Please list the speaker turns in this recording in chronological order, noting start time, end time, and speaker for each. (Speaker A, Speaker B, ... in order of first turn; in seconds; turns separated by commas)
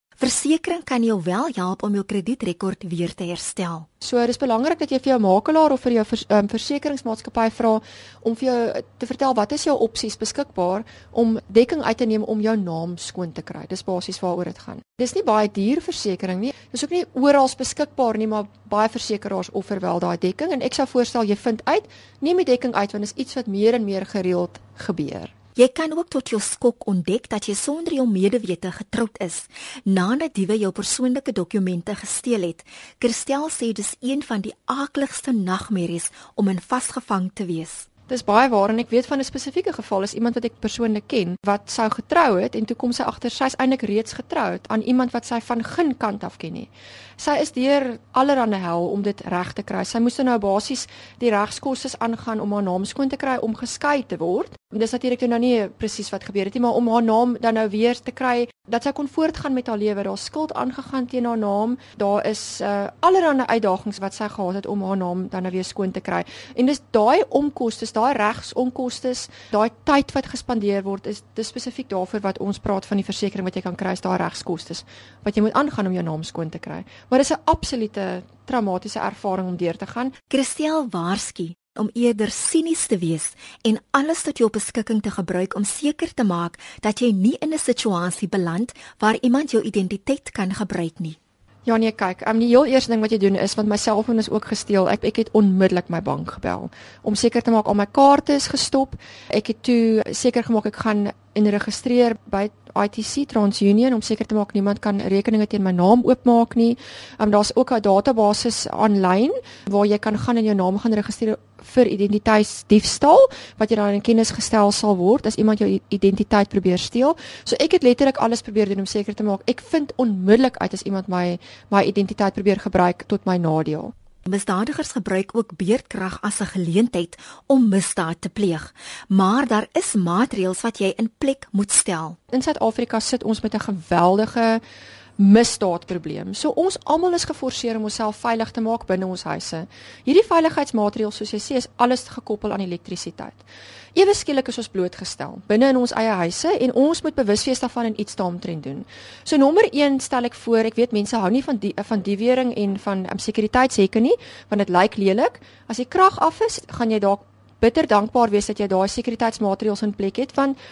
Speaker A: 0.2-3.9, Speaker B: 4.0-25.3, Speaker A: 25.6-37.9, Speaker B: 38.1-80.2, Speaker A: 80.3-91.2, Speaker B: 91.7-123.9, Speaker A: 124.3-132.2, Speaker B: 132.3-134.6, Speaker B: 135.2-160.6